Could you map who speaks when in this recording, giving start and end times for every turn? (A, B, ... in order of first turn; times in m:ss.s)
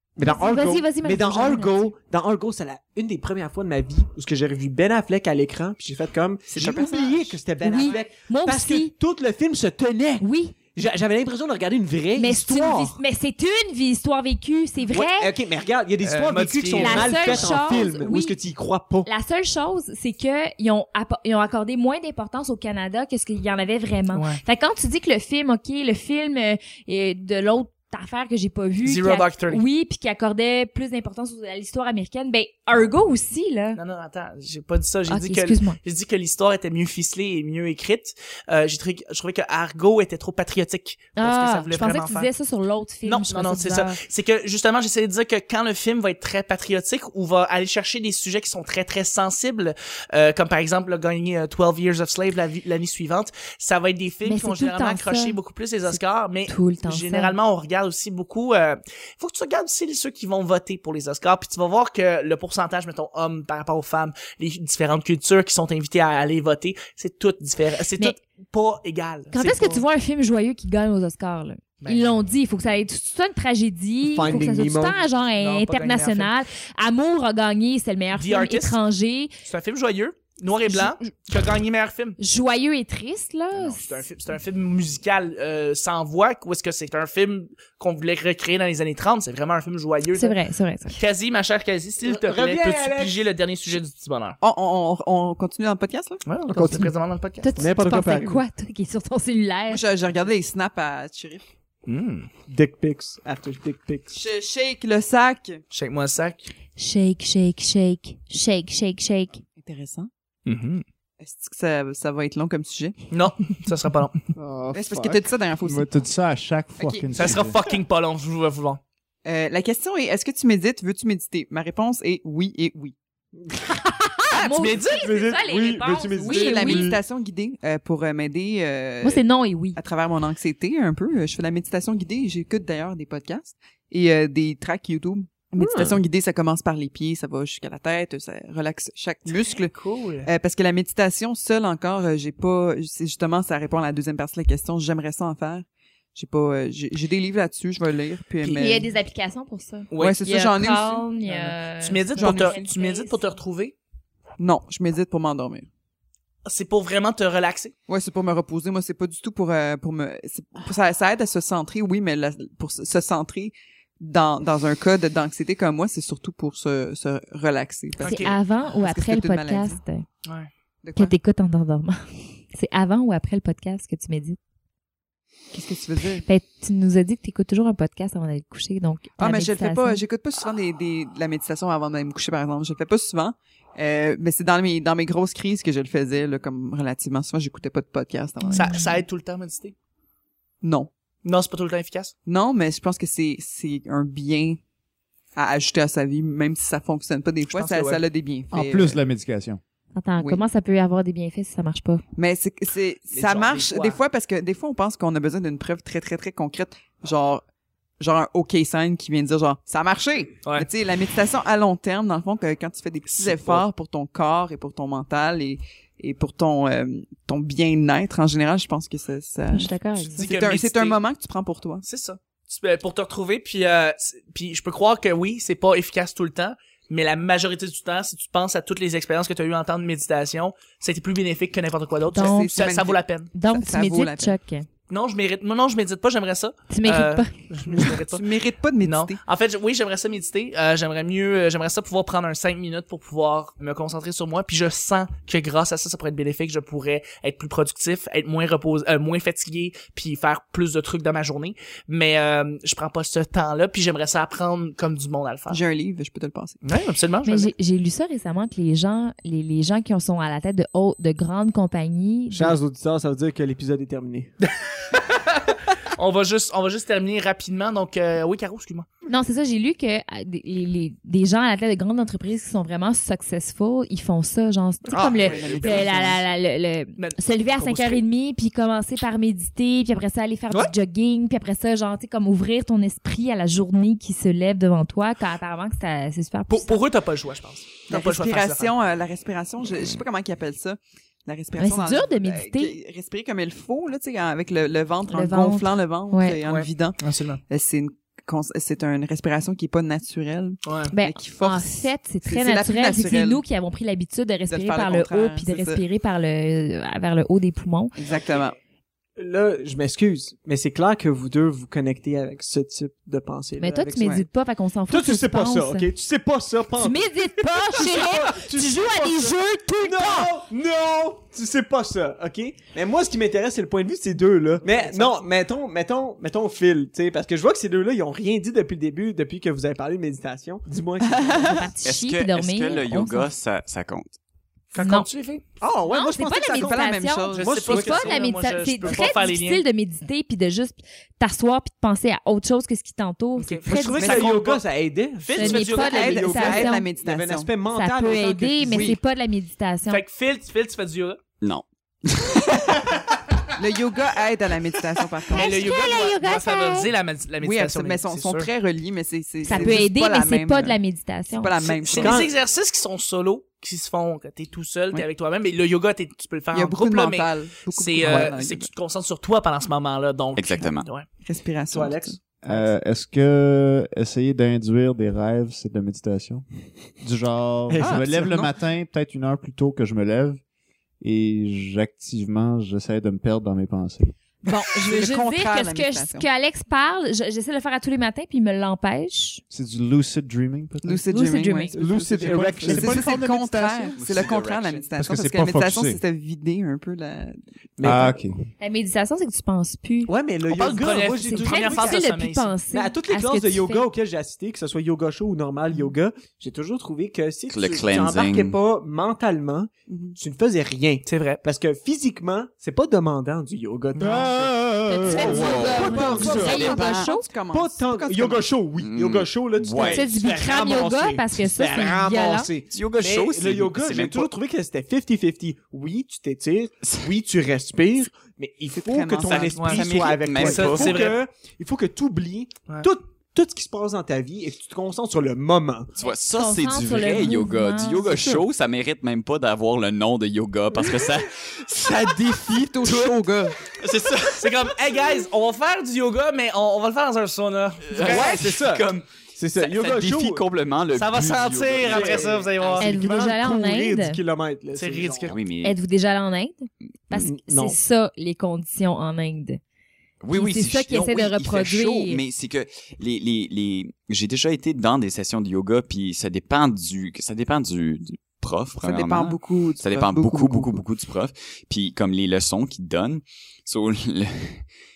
0:00.2-0:13.0 A
0:00.2-0:01.9 B
0:06.5-0:07.0 C
0:06.5-0:07.0 D
0:07.6-0:08.9 B
0:10.2-0:10.6 B
0:12.2-0:15.3 B
0:14.9-0:19.1 A
0:16.0-0:17.6 C
0:16.8-0:18.4 B
0:19.0-0:33.8 B
0:24.1-0:24.4 C
0:28.8-0:29.6 C
0:33.8-0:42.3 C
0:35.1-0:35.8 B
0:41.2-0:44.0 B
0:43.0-1:09.8 C
0:54.2-0:57.3 B
1:09.3-1:19.3 B
1:11.8-1:12.2 C
1:14.0-1:15.0 A
1:15.4-1:16.3 C
1:18.1-1:18.8 C
1:19.4-1:22.2 C
1:20.7-1:21.0 B
1:22.2-1:24.0 B
1:23.5-1:30.4 C
1:30.1-1:31.0 B
1:30.9-1:34.4 C
1:32.0-1:33.2 A
1:34.4-1:36.2 D
1:36.2-1:37.5 C
1:36.5-1:36.9 A
1:37.4-1:39.8 B
1:37.6-1:38.4 A
1:39.7-1:41.4 D
1:41.9-1:42.3 C
1:42.5-1:44.2 A
1:44.1-1:45.6 D
1:45.7-1:46.5 C
1:46.8-1:49.4 B
1:49.6-1:50.1 D
1:50.4-1:50.8 C
1:51.2-1:52.9 D
1:53.1-1:54.2 C
1:54.4-1:57.6 E
1:54.7-1:55.9 D
1:56.8-1:57.4 D
1:57.1-1:58.8 C
1:59.2-2:02.9 D
2:04.3-2:06.9 B
2:04.5-2:05.0 C
2:04.7-2:07.0 A
2:06.2-2:09.2 D
2:09.0-2:09.8 B
2:09.8-2:19.7 D
2:19.3-2:20.3 C
2:20.2-2:28.9 D
2:28.5-2:33.2 B
2:29.9-2:30.2 C
2:30.0-2:31.0 D
2:31.2-2:33.7 C
2:32.2-2:32.6 D
2:34.4-2:35.7 D
2:36.4-2:37.7 C
2:37.9-2:49.8 D
2:48.0-2:48.3 C
2:48.0-2:50.0 B
2:50.8-2:51.1 D
2:51.0-2:52.0 B
2:52.5-2:54.4 B
2:55.5-2:56.2 D
2:56.2-3:00.0 B
2:59.2-3:08.8 D
3:08.4-3:09.0 B
3:08.5-3:09.7 C
3:10.6-3:10.9 D
3:11.2-3:12.1 C
3:12.2-3:14.6 D
3:15.4-3:19.0 D
3:17.5-3:18.0 C
3:18.5-3:19.6 E
3:20.0-3:22.0 B
3:22.2-3:27.4 D
3:23.2-3:24.0 C
3:28.0-3:41.8 D
3:33.1-3:33.6 C
3:39.5-3:40.2 B
3:40.1-3:41.0 C
3:41.8-3:53.3 C
3:52.1-3:52.5 B
3:52.1-3:54.4 D
3:53.3-3:54.7 B
3:54.9-3:58.3 C
3:56.7-3:57.3 B
3:57.8-3:59.2 D
3:58.8-4:15.6 C
4:15.5-4:16.6 D
4:16.6-4:17.5 C
4:17.2-4:22.6 B
4:22.3-4:24.3 A
4:25.0-4:28.9 C
4:29.1-4:46.8 B
4:34.9-4:36.1 C
4:34.9-4:36.2 D
4:37.0-4:38.0 C
4:46.5-4:48.7 C
4:47.9-5:03.4 D
4:51.6-4:52.8 B
4:55.1-4:56.4 B
4:56.4-4:57.4 C
5:00.6-5:00.9 C
5:00.9-5:07.9 B
5:04.5-5:05.8 D
5:08.0-5:08.6 D
5:09.2-5:14.2 A
5:13.6-5:15.9 B
5:14.9-5:31.7 A
5:16.8-5:20.3 B
5:24.6-5:25.1 C
5:31.0-5:31.6 D
5:31.3-5:33.3 B
5:31.8-5:34.2 F
5:34.7-5:35.4 C
5:34.8-5:35.1 B
5:35.6-5:38.2 A
5:35.9-5:44.3 B
5:36.3-5:37.7 D
5:37.3-5:39.6 C
5:38.8-5:39.1 A
5:43.4-5:44.6 C
5:43.7-5:49.0 A
5:45.2-5:46.2 C
5:45.3-5:46.9 B
5:45.7-5:47.5 D
5:47.7-5:50.0 B
5:48.6-5:49.0 D
5:49.9-5:51.2 C
5:51.4-5:52.8 F
5:53.6-5:55.7 D
5:55.3-5:58.5 C
5:55.3-5:56.9 B
5:57.4-6:00.8 D
5:59.4-6:01.6 B
5:59.5-5:59.8 C
6:01.3-6:02.2 D
6:01.8-6:11.0 C
6:01.9-6:02.3 A
6:06.5-6:08.7 D
6:08.0-6:08.3 A
6:10.4-6:10.9 F
6:11.2-6:12.7 D
6:11.7-6:12.2 A
6:12.4-6:16.4 E
6:17.0-6:20.4 E
6:17.7-6:18.1 A
6:17.8-6:18.5 D
6:21.0-6:24.1 E
6:24.4-6:29.4 B
6:24.8-6:26.3 D
6:29.5-6:31.1 E
6:30.8-6:37.9 D
6:31.1-6:31.8 B
6:31.7-6:33.1 A
6:31.9-6:34.4 E
6:33.9-6:34.9 F
6:35.0-6:36.0 E
6:37.8-6:38.2 A
6:37.8-6:38.4 E
6:38.6-6:40.1 B
6:40.0-6:42.0 A
6:40.5-6:42.5 C
6:41.0-6:43.8 B
6:42.7-6:56.9 A
6:47.5-6:48.6 F
6:49.9-6:50.2 D
6:51.0-6:51.4 C
6:54.0-6:55.7 E
6:54.9-6:57.3 B
6:55.1-6:57.1 F
6:55.2-6:58.5 D
6:57.5-7:15.9 A
6:58.8-7:00.2 F
6:59.8-7:02.5 B
7:02.7-7:04.3 F
7:06.8-7:07.1 F
7:08.7-7:09.7 D
7:09.3-7:11.1 F
7:09.6-7:11.2 C
7:16.0-7:23.2 F
7:16.3-7:18.1 B
7:18.1-7:18.4 D
7:21.9-7:23.6 D
7:23.8-7:24.8 F
7:24.4-7:28.4 C
7:27.8-7:32.8 F
7:28.0-7:30.4 A
7:30.9-7:32.9 C
7:31.8-7:35.4 A
7:32.8-7:34.2 B
7:34.7-7:35.3 C
7:35.3-7:35.8 F
7:35.6-7:39.6 B
7:37.1-7:37.8 A
7:40.2-7:54.6 F
7:40.3-7:42.2 B
7:48.8-7:50.8 D